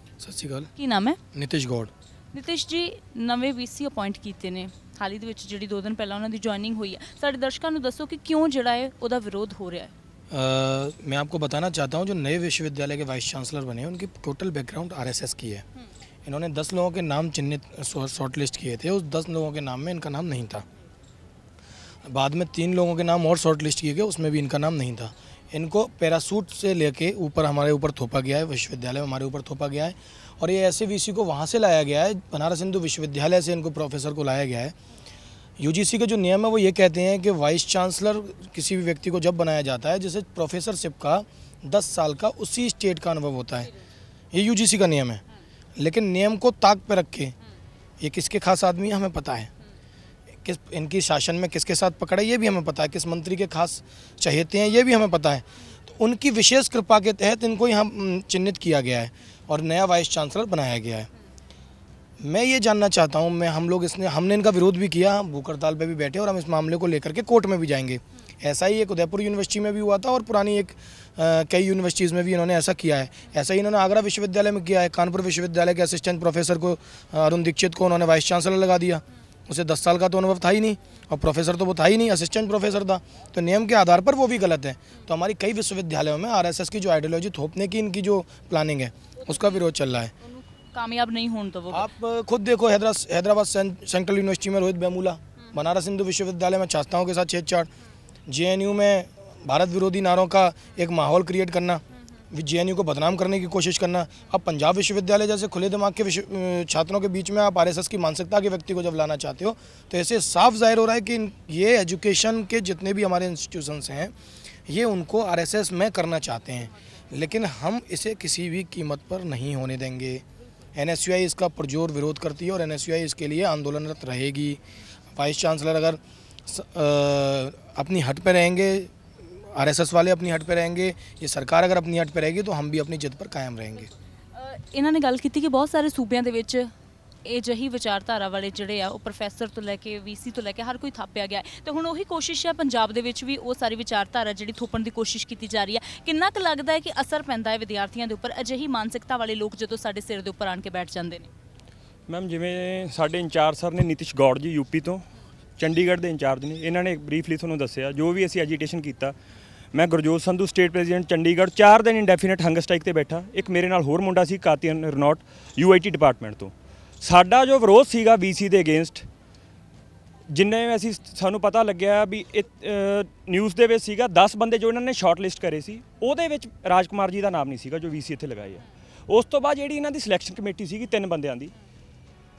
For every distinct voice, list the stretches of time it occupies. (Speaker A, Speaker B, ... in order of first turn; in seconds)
Speaker A: 0.2-0.7, 1.3-1.9, 10.3-15.6, 16.2-20.6, 22.0-34.7, 35.6-43.7, 44.3-45.2, 45.8-47.3, 48.0-49.5, 50.4-61.1, 62.2-90.1, 91.7-97.7, 98.3-114.1, 114.7-120.2, 120.7-124.6, 125.1-133.9
Speaker B: 0.8-1.2, 2.3-9.9, 90.2-91.9, 134.3-136.7, 137.2-151.3
Speaker C: 152.1-155.0, 155.6-159.1, 159.7-169.1, 170.3-181.5